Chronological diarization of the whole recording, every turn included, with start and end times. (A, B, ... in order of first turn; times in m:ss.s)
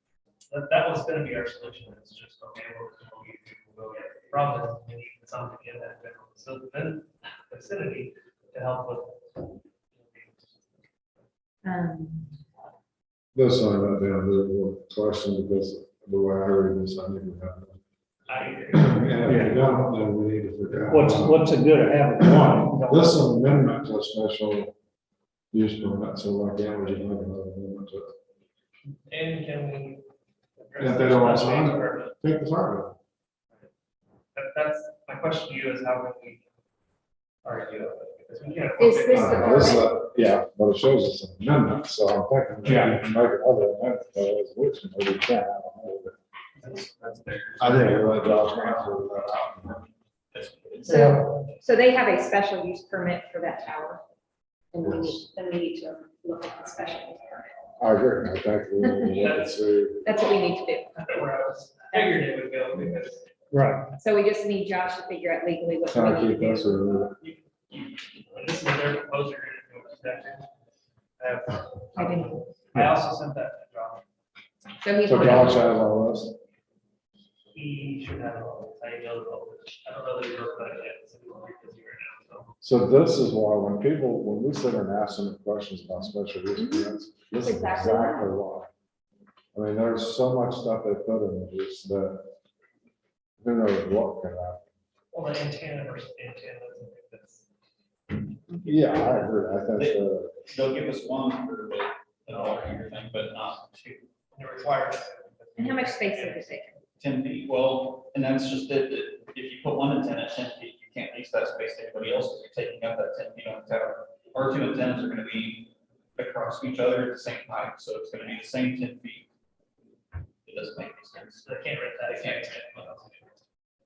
0:00.5-0:10.6 A
0:11.6-0:12.3 B
0:13.4-0:17.8 C
0:18.3-0:19.2 A
0:18.7-0:21.5 C
0:19.2-0:19.6 D
0:20.9-0:23.2 D
0:22.2-0:24.7 C
0:25.5-0:28.1 C
0:29.1-0:32.2 A
0:30.8-0:33.0 C
0:34.4-0:36.5 A
0:37.4-0:39.8 A
0:38.8-0:39.9 B
0:39.1-0:46.2 C
0:42.6-0:43.0 D
0:46.6-0:48.9 E
0:47.6-0:49.8 C
0:50.3-0:51.1 E
0:50.9-0:54.0 B
0:50.9-0:51.3 D
0:54.7-0:57.6 B
0:54.8-0:55.2 C
0:57.8-1:00.1 C
0:58.8-0:59.2 B
0:59.1-0:59.6 A
1:00.0-1:01.3 B
1:01.0-1:03.3 A
1:01.9-1:02.3 B
1:03.5-1:03.9 D
1:04.0-1:07.1 B
1:05.9-1:07.2 C
1:07.2-1:10.5 A
1:11.2-1:14.0 A
1:12.0-1:12.4 B
1:14.8-1:15.6 B
1:15.0-1:16.4 C
1:17.5-1:22.6 A
1:22.6-1:28.7 C
1:26.5-1:28.3 B
1:29.5-1:32.3 C
1:33.4-1:34.6 C
1:35.1-1:37.4 A
1:38.6-1:39.3 A
1:38.6-1:40.4 C
1:39.8-1:44.1 E
1:44.3-1:46.7 A
1:45.6-1:46.8 B
1:47.0-1:59.3 E
2:00.5-2:01.4 E
2:01.4-2:03.4 A
2:02.0-2:02.8 E